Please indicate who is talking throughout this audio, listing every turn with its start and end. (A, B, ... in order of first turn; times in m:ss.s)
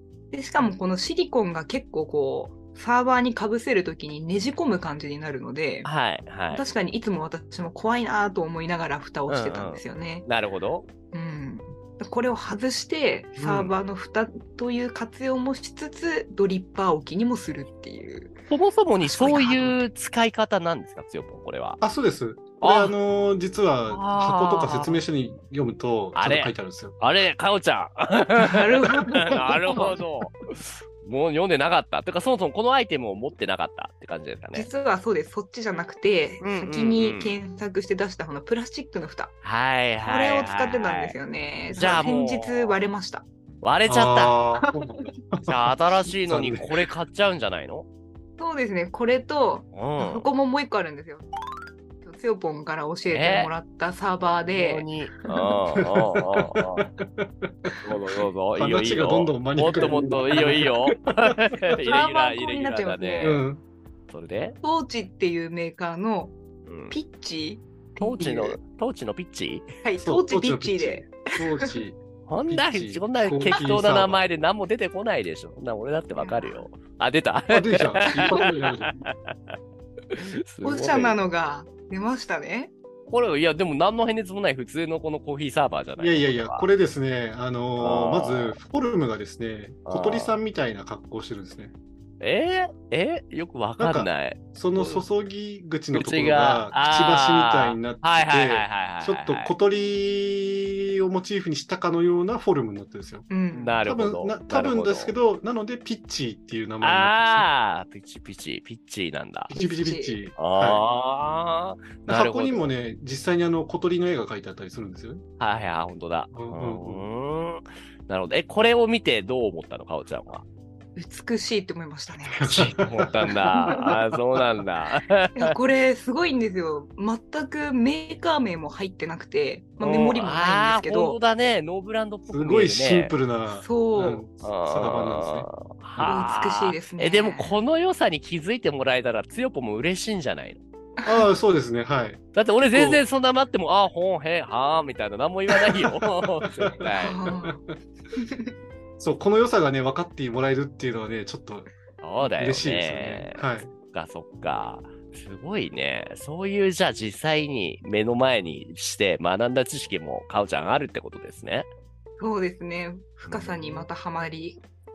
0:00.3-0:05.9 A
0:05.8-0:06.6 B
0:06.5-0:10.3 A
0:09.3-0:10.9 B
0:11.1-0:18.3 A
0:13.4-0:13.7 B
0:18.5-0:21.8 B
0:19.0-0:19.8 A
0:21.8-0:27.0 C
0:22.6-0:23.0 B
0:23.9-0:25.0 B
0:26.2-0:34.7 B
0:28.4-0:30.0 A
0:34.5-0:39.3 A
0:36.4-0:37.4 B
0:39.4-0:41.2 B
0:40.0-0:43.3 A
0:41.7-0:42.0 C
0:41.8-0:42.8 B
0:43.6-0:44.4 B
0:43.9-0:46.7 C
0:45.5-0:47.9 B
0:48.4-0:51.3 A
0:49.7-0:50.3 B
0:52.0-0:55.3 A
0:53.1-0:53.5 B
0:54.5-0:56.9 B
0:56.1-0:57.8 C
0:57.8-1:03.4 B
0:58.6-1:01.4 C
1:01.8-1:03.4 A
1:03.2-1:03.6 C
1:04.1-1:04.6 B
1:04.6-1:06.4 A
1:06.7-1:07.0 B
1:06.9-1:08.6 A
1:08.0-1:09.7 B
1:09.8-1:11.7 A
1:10.0-1:14.3 C
1:12.3-1:19.5 B
1:16.2-1:16.6 A
1:17.5-1:18.9 C
1:18.2-1:18.5 A
1:20.1-1:21.2 B
1:20.6-1:22.7 A
1:23.1-1:26.7 B
1:26.0-1:31.7 C
1:27.8-1:28.6 B
1:29.9-1:30.4 B
1:32.2-1:35.0 B
1:33.8-1:43.3 C
1:35.9-1:39.5 B
1:43.3-1:43.8 A
1:43.5-1:45.2 B
1:43.8-1:47.5 C
1:46.8-1:49.5 B
1:49.5-1:50.8 C
1:49.5-1:50.2 A
1:50.4-1:52.7 B
1:52.1-1:55.2 C
1:55.4-2:00.4 B
1:56.3-1:57.0 C
2:01.0-2:02.5 A
2:02.4-2:04.4 C
2:02.4-2:05.5 B
2:05.4-2:11.2 A
2:09.8-2:13.2 B
2:12.3-2:15.5 C
2:13.5-2:14.2 A
2:14.4-2:20.6 B
2:16.0-2:17.5 A
2:21.0-2:21.3 A
2:21.0-2:22.2 C
2:22.3-2:27.2 B
2:22.7-2:23.0 C
2:26.4-2:27.8 C
2:26.8-2:27.6 A
2:28.2-2:28.5 A
2:29.0-2:31.7 C
2:32.0-2:41.7 B
2:32.2-2:33.7 C
2:42.2-2:44.6 A
2:43.2-2:43.9 B